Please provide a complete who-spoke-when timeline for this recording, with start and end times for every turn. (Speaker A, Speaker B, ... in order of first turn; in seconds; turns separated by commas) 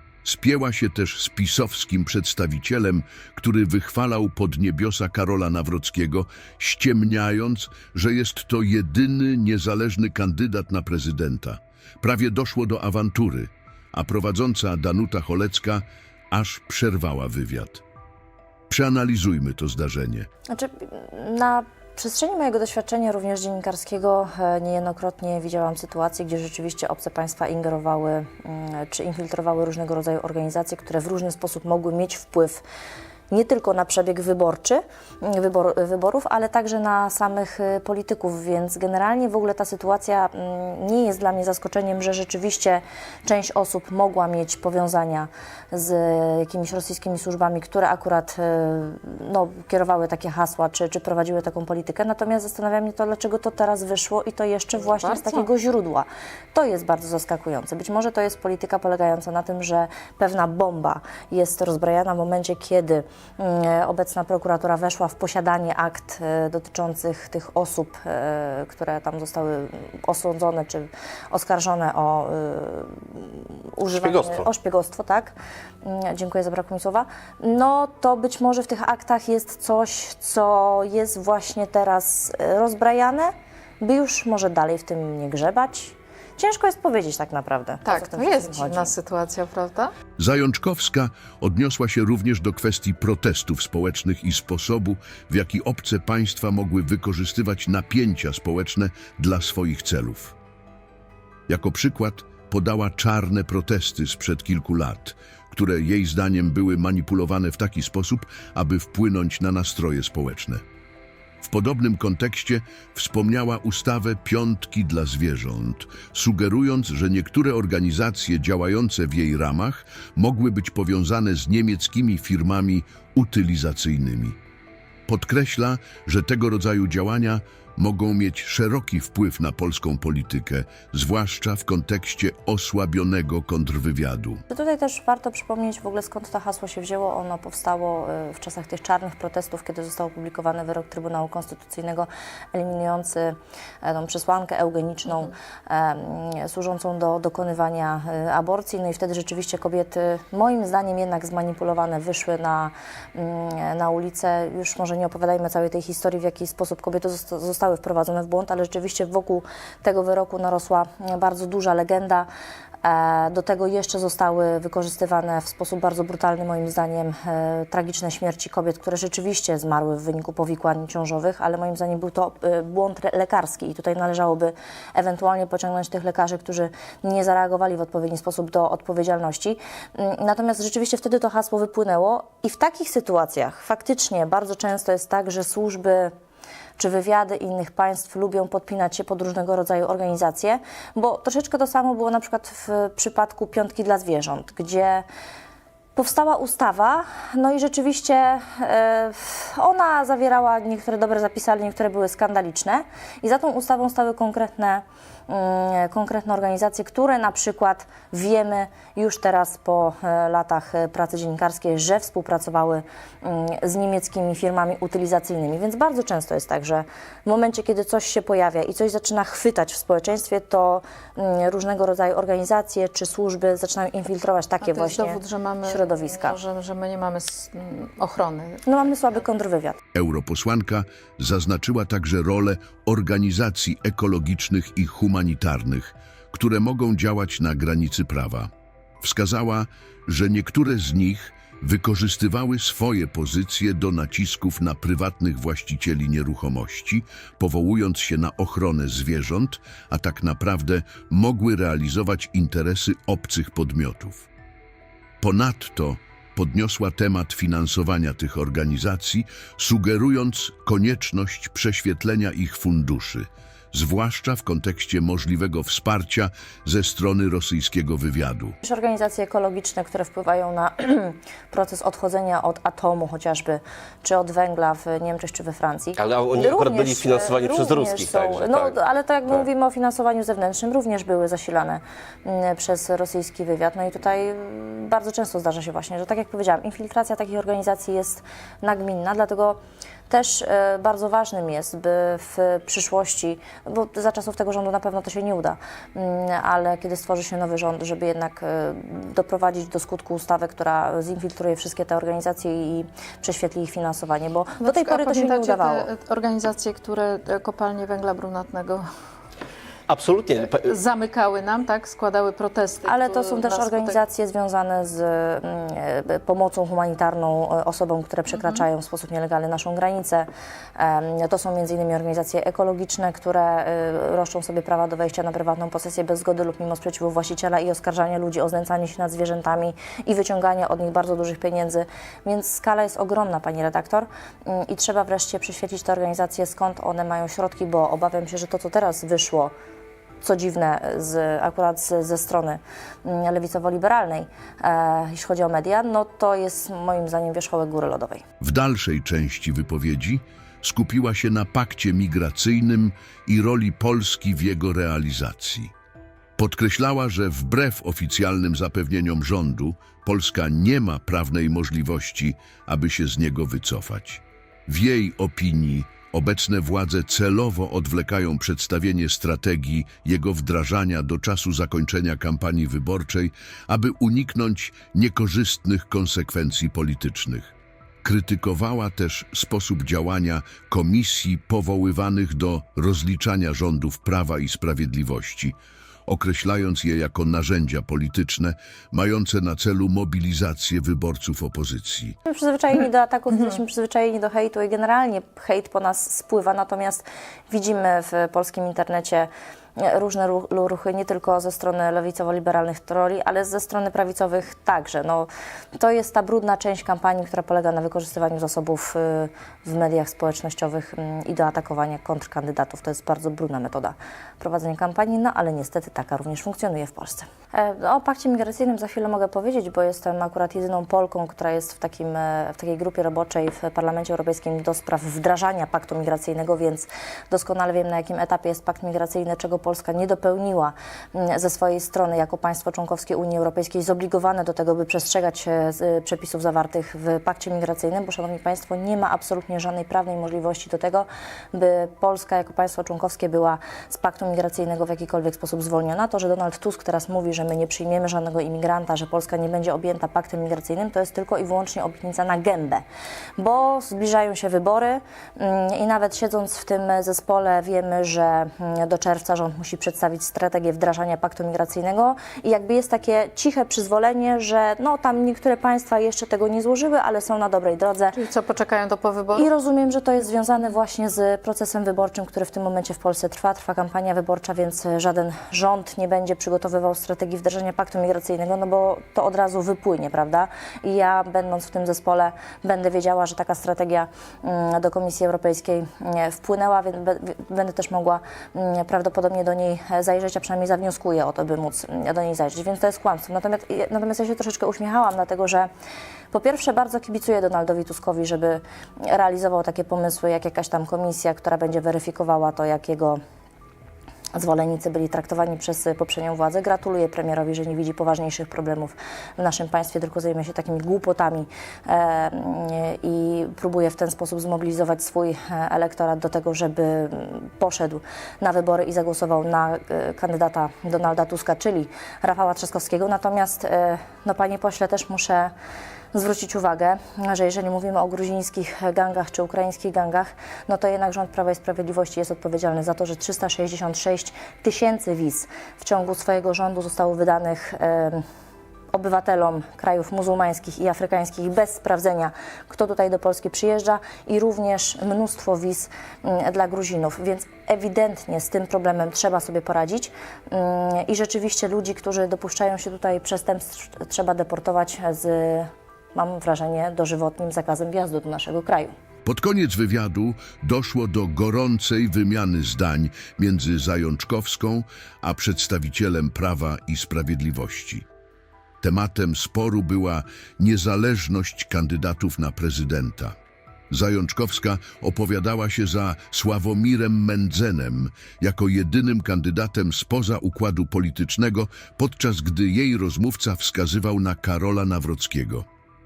Speaker A: 0.2-17.8, Speaker A: 18.7-20.3, Speaker B: 20.5-32.6, Speaker B: 33.3-88.9, Speaker C: 54.8-55.5, Speaker D: 74.0-74.5, Speaker C: 87.8-89.9, Speaker A: 90.2-100.3, Speaker A: 101.5-110.6, Speaker A: 111.4-124.4, Speaker A: 125.1-134.4, Speaker B: 134.5-162.3, Speaker B: 162.8-186.1, Speaker B: 186.8-195.1, Speaker B: 196.0-226.4, Speaker C: 224.6-228.9, Speaker B: 228.7-229.8, Speaker A: 229.9-238.5, Speaker A: 239.0-254.3, Speaker A: 255.2-268.6, Speaker B: 268.6-289.6, Speaker D: 276.0-278.8, Speaker B: 290.1-305.9, Speaker C: 304.6-308.9, Speaker D: 309.9-310.7, Speaker C: 310.6-314.0, Speaker B: 312.9-339.5, Speaker C: 318.3-318.6, Speaker B: 340.2-348.2, Speaker A: 348.4-355.7, Speaker A: 356.4-377.5, Speaker A: 378.0-385.6, Speaker A: 386.1-392.2, Speaker B: 392.3-452.8, Speaker B: 453.4-468.2, Speaker C: 468.1-469.5, Speaker B: 469.4-495.7, Speaker B: 496.3-503.2, Speaker B: 504.3-525.5, Speaker B: 526.1-538.2, Speaker B: 538.9-558.9, Speaker A: 559.2-568.1, Speaker A: 568.8-573.4, Speaker A: 573.9-585.6